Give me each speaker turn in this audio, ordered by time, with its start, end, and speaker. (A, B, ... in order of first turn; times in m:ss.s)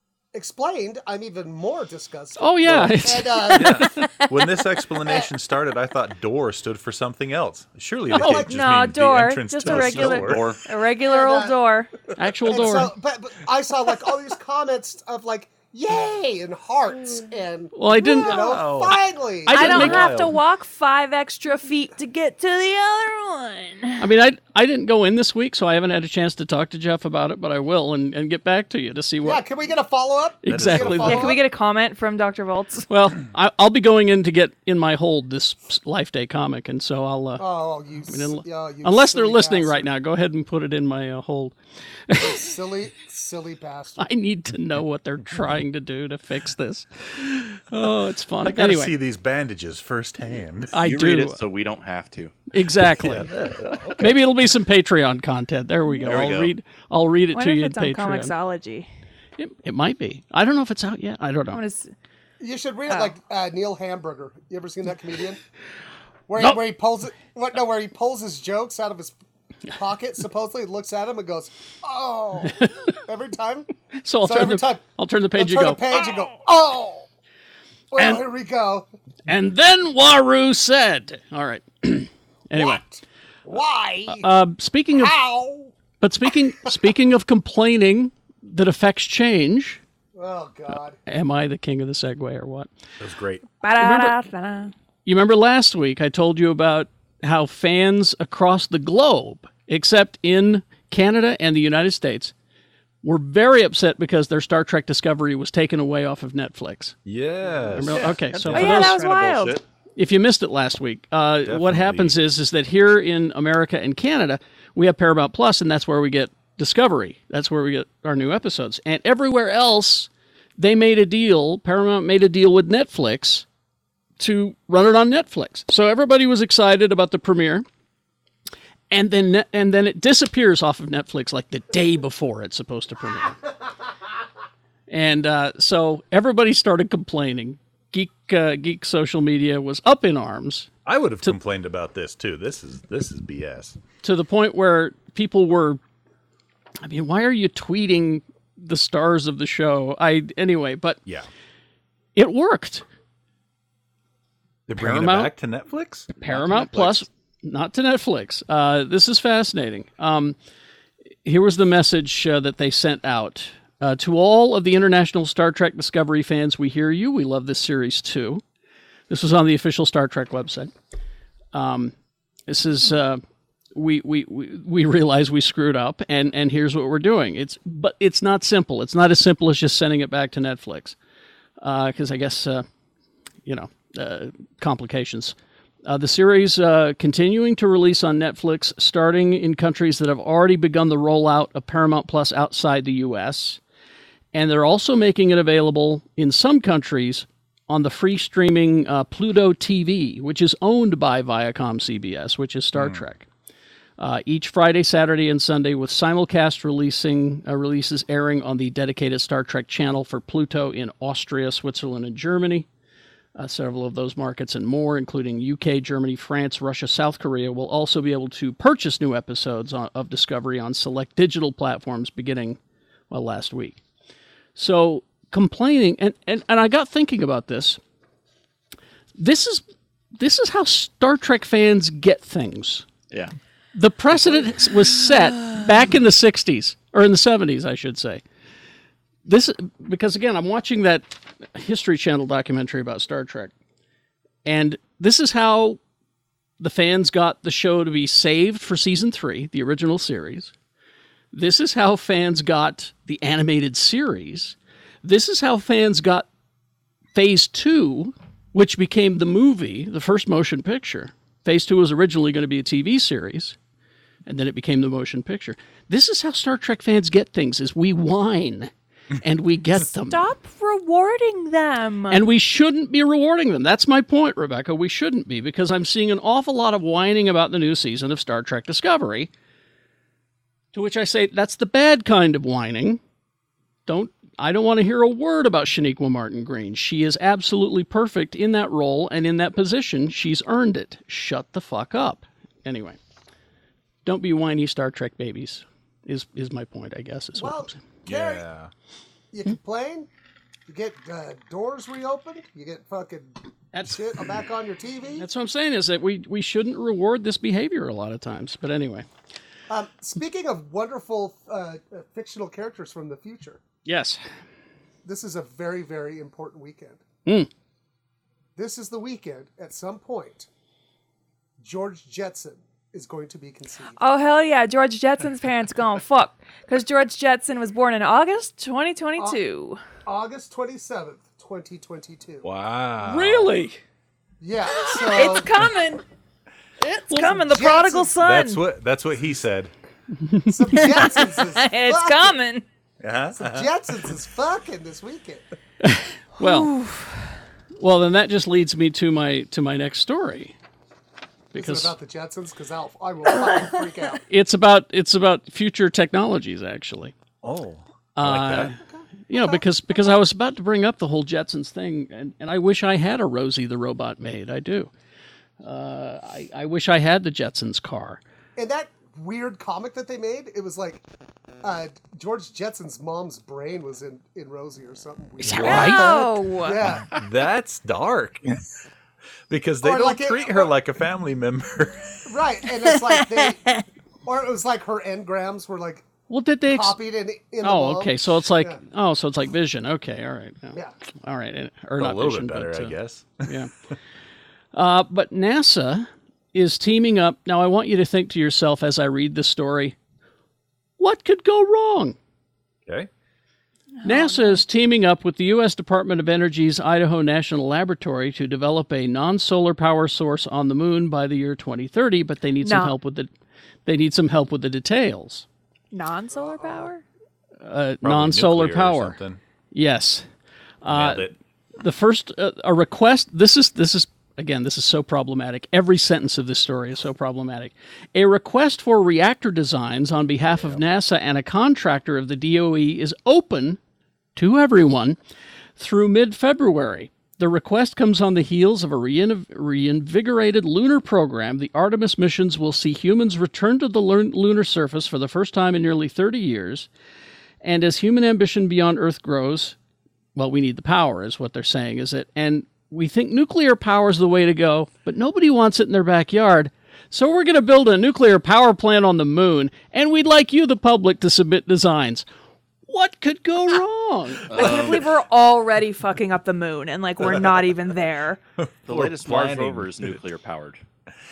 0:00.3-0:03.9 A
0:02.4-0:03.8 B
0:03.5-0:10.5 C
0:05.0-0:05.3 A
0:08.1-0:08.6 A
0:08.2-0:11.9 D
0:09.7-0:10.6 E
0:11.0-0:11.6 A
0:12.2-0:12.9 B
0:12.5-0:20.0 A
0:17.8-0:18.4 B
0:18.0-0:18.6 D
0:18.4-0:19.0 C
0:19.5-0:20.2 B
0:19.5-0:20.4 C
0:19.5-0:24.0 D
0:24.0-0:29.4 B
0:29.2-0:31.4 A
0:30.4-0:31.3 B
0:30.5-0:31.3 C
0:31.0-0:32.9 D
0:32.9-0:37.5 B
0:37.4-0:39.9 A
0:38.1-0:41.6 B
0:42.1-0:42.4 B
0:42.1-0:44.1 A
0:44.0-0:48.9 B
0:48.4-0:50.7 C
0:50.7-0:51.4 B
0:50.8-0:52.4 E
0:52.5-0:53.3 B
0:52.8-0:54.2 C
0:54.0-0:58.3 B
0:56.0-0:56.5 E
0:57.3-0:58.9 D
0:59.4-1:01.6 B
1:01.5-1:01.9 D
1:02.4-1:05.4 A
1:06.3-1:09.2 A
1:09.7-1:13.7 A
1:14.0-1:15.9 B
1:14.2-1:14.8 A
1:15.4-1:17.1 A
1:17.9-1:18.9 A
1:18.0-1:18.2 B
1:19.3-1:22.8 B
1:22.5-1:24.3 A
1:24.1-1:25.1 B
1:24.9-1:25.7 A
1:26.0-1:29.8 B
1:30.1-1:31.0 A
1:31.1-1:32.7 B
1:33.0-1:33.5 C
1:33.6-1:34.7 D
1:33.8-1:34.2 B
1:35.1-1:42.3 B
1:43.0-1:47.0 B
1:47.1-1:49.1 C
1:47.7-1:49.0 B
1:48.0-1:49.6 E
1:48.5-1:49.6 D
1:50.0-2:03.4 B
1:51.4-1:52.2 C
2:04.2-2:07.6 B
2:08.9-2:13.4 B
2:14.9-2:20.7 B
2:20.8-2:23.8 C
2:24.0-2:25.8 B
2:26.8-2:31.0 B
2:32.2-2:32.8 B
2:34.7-2:37.1 C
2:34.8-2:35.3 B
2:36.2-2:40.4 B
2:41.2-2:48.4 B
2:49.1-2:50.7 B
2:51.5-2:51.9 B
2:52.5-2:53.2 B
2:53.8-3:01.0 B
3:01.6-3:02.7 B
3:03.5-3:05.4 B
3:05.9-3:13.6 B
3:14.3-3:23.3 B
3:22.8-3:23.0 C
3:24.0-3:32.7 B
3:33.4-3:42.6 B
3:43.1-3:43.8 B
3:44.6-3:47.8 B
3:49.2-3:49.6 B
3:50.2-3:52.9 B
3:53.7-3:58.2 B
3:59.3-4:03.5 B
4:04.4-4:05.8 B
4:06.6-4:10.5 B
4:11.3-4:16.3 B
4:17.2-4:23.6 B
4:24.3-4:28.7 B
4:29.2-4:30.2 B
4:30.1-4:32.2 D
4:32.1-4:39.3 B
4:40.7-4:43.0 B
4:43.9-4:53.0 B
4:54.0-4:57.8 B
4:57.4-4:58.5 A
4:58.1-4:58.7 C
4:59.3-5:00.1 A
5:00.7-5:05.3 A
5:03.7-5:04.0 B
5:05.2-5:09.1 B
5:09.7-5:13.6 A
5:13.9-5:14.2 B
5:15.0-5:17.0 A
5:18.6-5:20.5 A
5:21.6-5:24.0 A
5:24.0-5:29.8 D
5:30.0-5:32.5 A
5:32.4-5:33.5 C
5:33.0-5:33.8 B
5:34.4-5:35.6 A
5:35.0-5:36.0 D
5:36.8-5:37.4 B
5:37.1-5:38.6 D
5:37.3-5:38.2 A
5:38.2-5:39.7 C
5:40.2-5:41.0 B
5:40.5-5:42.4 A
5:40.8-5:42.6 D
5:43.0-5:43.7 C
5:43.3-5:45.4 A
5:45.8-5:46.7 B
5:46.4-5:47.2 D
5:47.8-5:50.5 B
5:51.5-5:51.9 B
5:51.6-5:54.2 A
5:54.3-5:57.2 B
5:57.4-5:58.7 C
5:58.2-5:58.8 B
5:58.8-5:59.6 A
5:59.3-6:04.9 B
6:05.6-6:08.2 B
6:08.6-6:11.0 A
6:11.6-6:17.1 A
6:15.4-6:16.0 B
6:15.6-6:16.8 D
6:16.9-6:18.4 C
6:19.5-6:22.2 C
6:19.8-6:20.7 A
6:22.2-6:26.1 A
6:26.3-6:27.0 B
6:26.7-6:28.8 A
6:27.6-6:33.7 B
6:32.0-6:33.5 C
6:34.7-6:40.0 B
6:41.0-6:42.2 B
6:44.0-6:44.6 D
6:44.0-6:53.3 B
6:52.6-6:53.0 D
6:53.9-6:55.5 B
6:55.9-6:57.0 D
6:56.4-6:56.9 A
6:57.6-6:59.2 B
6:58.0-6:59.4 C
6:59.7-7:00.3 B
7:00.8-7:13.8 B
7:00.9-7:01.4 C
7:10.5-7:10.8 C
7:14.4-7:15.2 B
7:15.8-7:26.9 B
7:27.6-7:29.8 B
7:30.4-7:42.3 B
7:42.9-7:44.8 B
7:44.5-7:45.1 E
7:44.5-7:48.4 D
7:48.6-7:50.2 C
7:48.9-7:50.8 E